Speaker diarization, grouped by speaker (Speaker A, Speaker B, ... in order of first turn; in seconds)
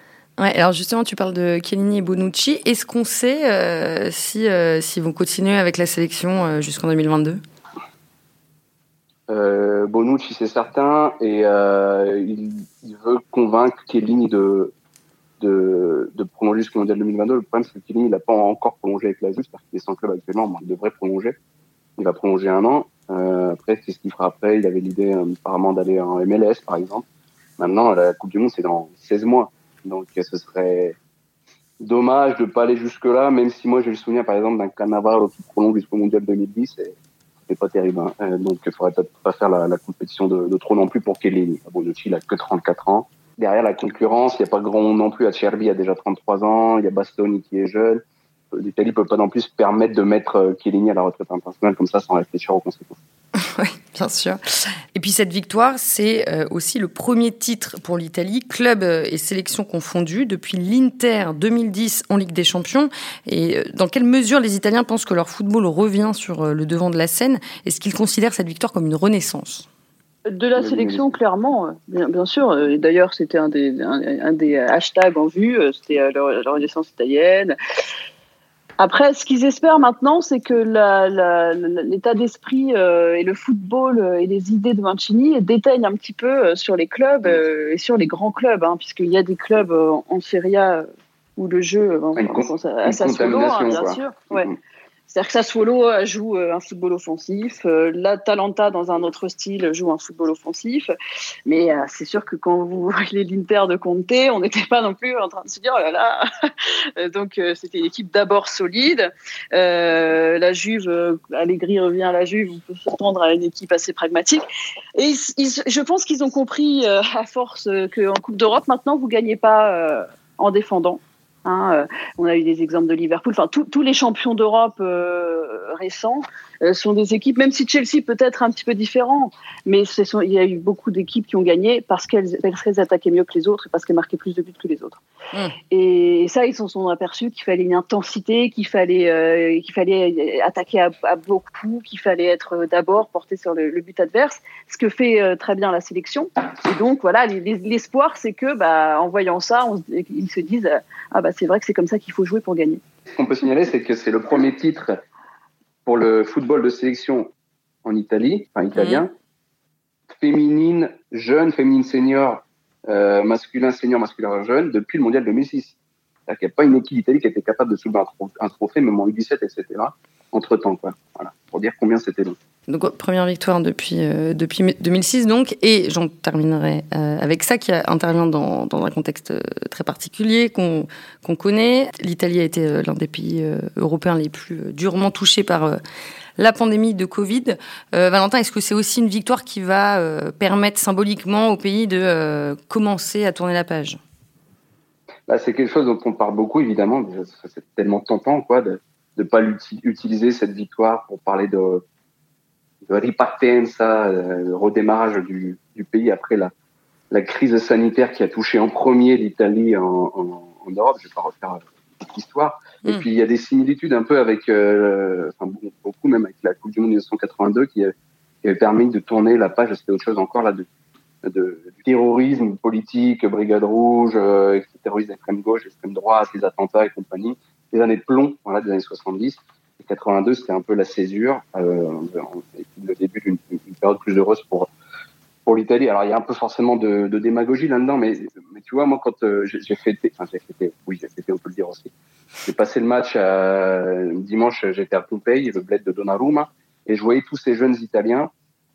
Speaker A: 0.4-7.4, 53.4-54.4, 54.9-69.7, 158.8-159.0, 172.7-185.8, 186.4-194.0
Speaker B: 9.3-14.7, 15.4-21.4, 22.0-27.0, 27.6-31.0, 31.8-53.0, 70.6-71.0, 92.2-94.5, 153.1-154.9, 155.8-157.3, 157.8-159.1, 160.1-172.4, 195.3-201.8, 202.9-206.5, 207.1-220.7, 221.2-234.7, 235.4-241.9, 242.4-248.3
Speaker C: 70.3-77.5, 78.8-94.5, 95.1-100.9, 101.5-114.4, 115.0-135.0, 135.7-152.8